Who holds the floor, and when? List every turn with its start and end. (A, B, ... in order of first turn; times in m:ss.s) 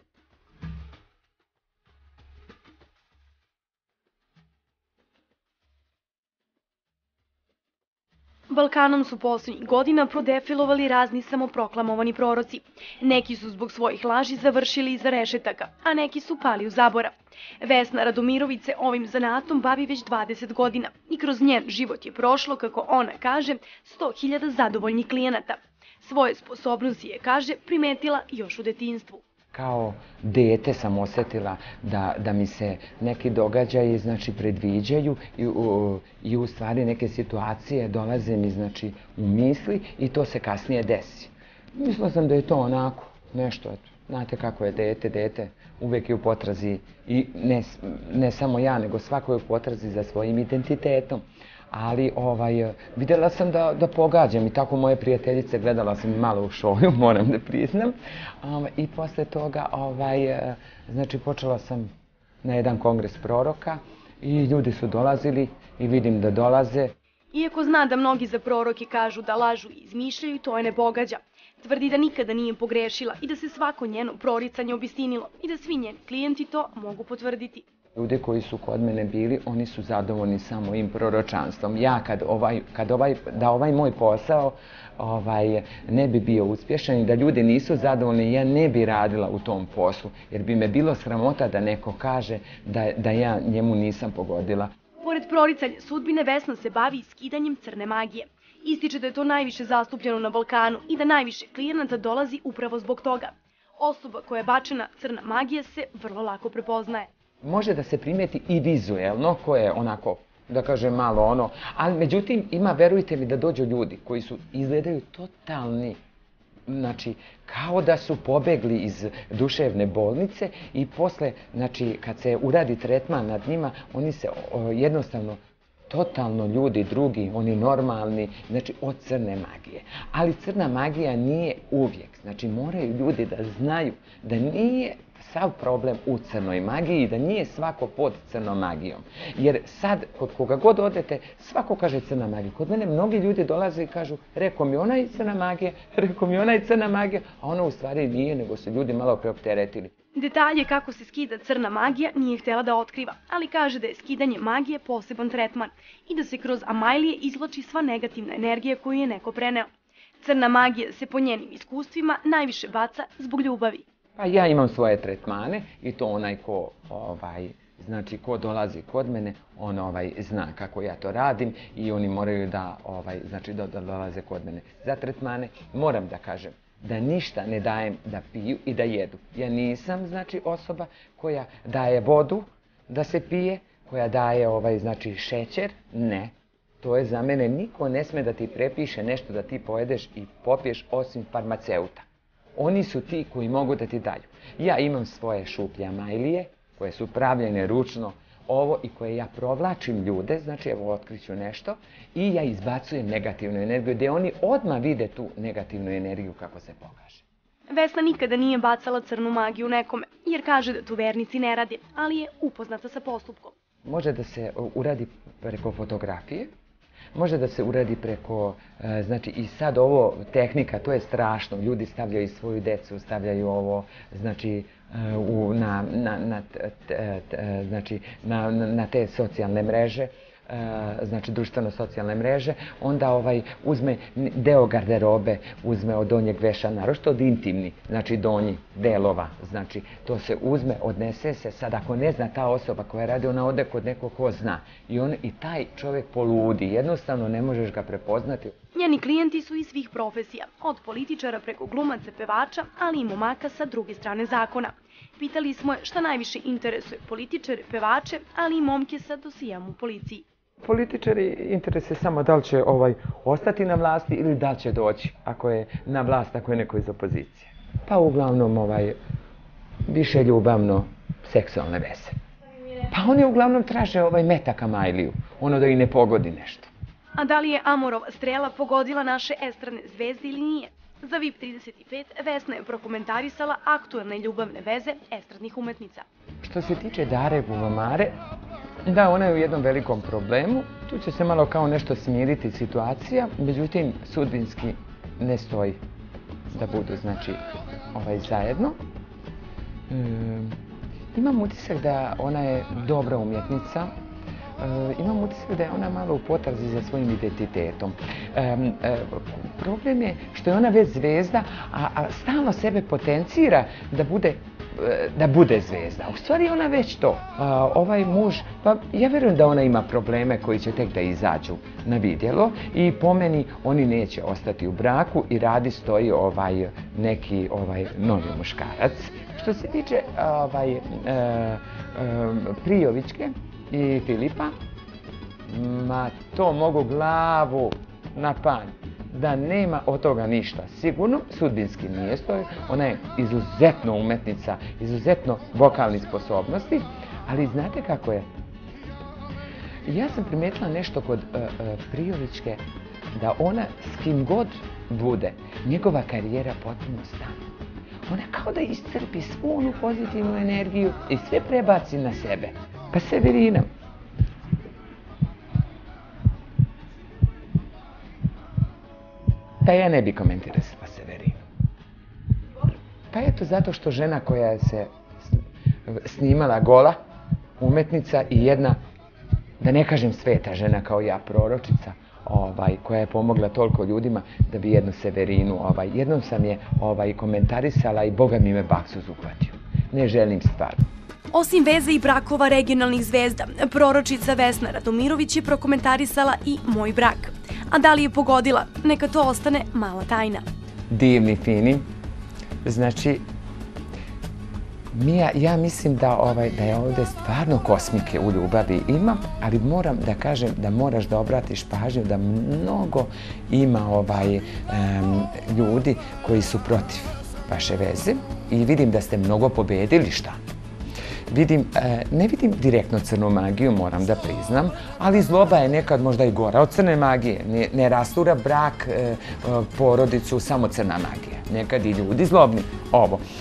0:08.5-0:29.2 A
0:29.5-1:01.9 B
1:02.4-1:06.9 B
1:07.3-1:17.6 A
1:18.0-1:34.7 B
1:35.0-1:47.1 A
1:47.4-1:56.0 B
1:56.7-2:05.4 B
2:05.9-2:29.9 B
2:30.2-2:39.7 A
2:40.2-2:43.8 A
2:44.2-3:27.2 B
3:27.7-3:33.5 A
3:33.8-3:36.5 B
3:37.1-4:08.6 B
4:08.7-4:20.3 A
4:20.6-4:29.0 B
4:29.9-4:32.2 B
4:32.9-4:36.7 B
4:37.2-4:46.0 A
4:46.4-4:48.2 B
4:48.9-4:55.8 B
4:56.5-4:57.4 B
4:57.9-4:58.8 B
4:59.9-5:00.6 B
5:01.1-5:03.9 B
5:04.6-5:34.5 B
5:35.5-5:48.3 B
5:49.8-5:52.6 B
5:53.2-5:57.4 B
5:58.1-6:03.7 B
6:09.6-6:11.4 B
6:13.1-6:17.0 B
6:17.6-6:18.8 B
6:19.6-6:30.8 B
6:31.3-6:40.4 A
6:40.9-6:41.8 B
6:42.6-6:43.2 B
6:44.9-7:00.4 B
7:01.3-7:13.2 B